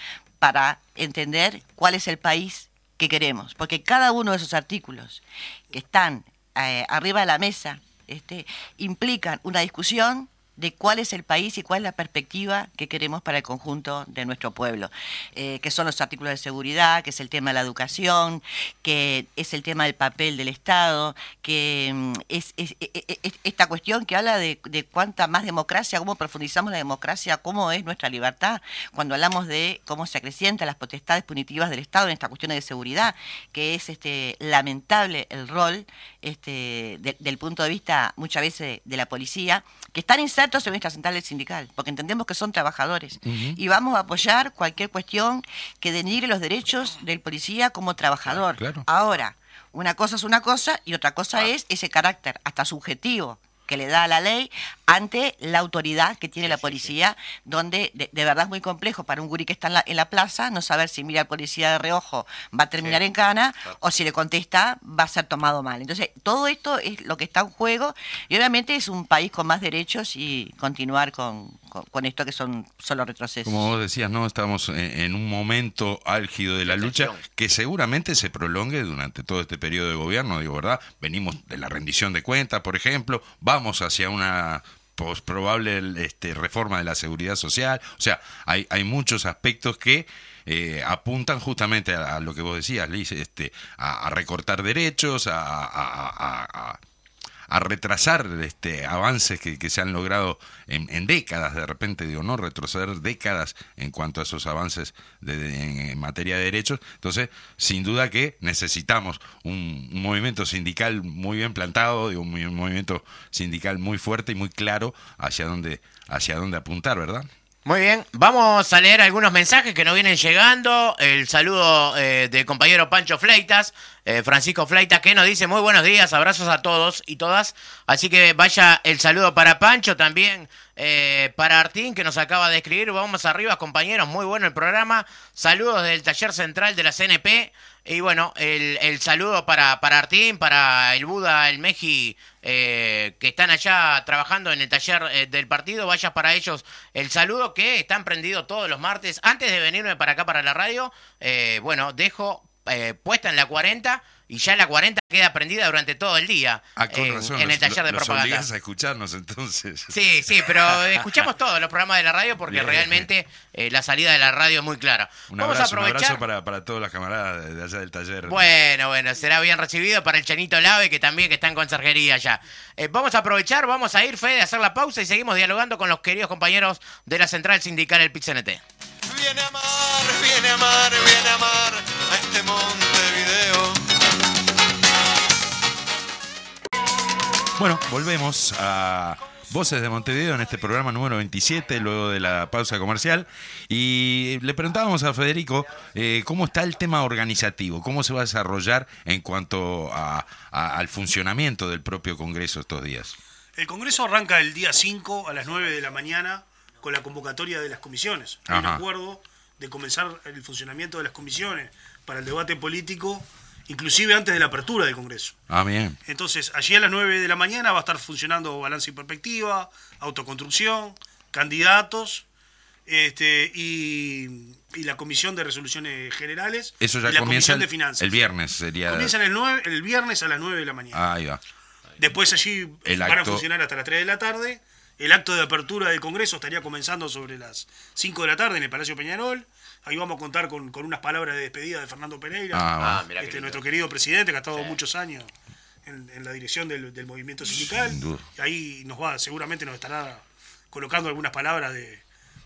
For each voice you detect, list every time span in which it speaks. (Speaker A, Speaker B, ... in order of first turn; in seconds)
Speaker A: 0.4-73.7
Speaker B: 43.2-43.6, 48.3-48.9, 73.5-96.8, 97.5-117.3, 156.8-161.3, 162.5-163.1, 165.3-168.5, 187.6-203.2, 208.5-208.8, 215.5-216.0, 226.8-229.1, 230.9-231.4, 232.8-233.5, 242.5-243.1, 247.5-248.3
Speaker C: 56.4-56.9, 76.7-77.2, 117.7-158.5, 159.9-166.2, 168.3-178.6, 242.8-243.6, 244.5-244.8
Speaker D: 179.1-183.8
Speaker E: 203.6-215.4, 216.1-222.2, 222.9-228.2, 228.9-231.0, 232.0-245.3, 245.8-252.0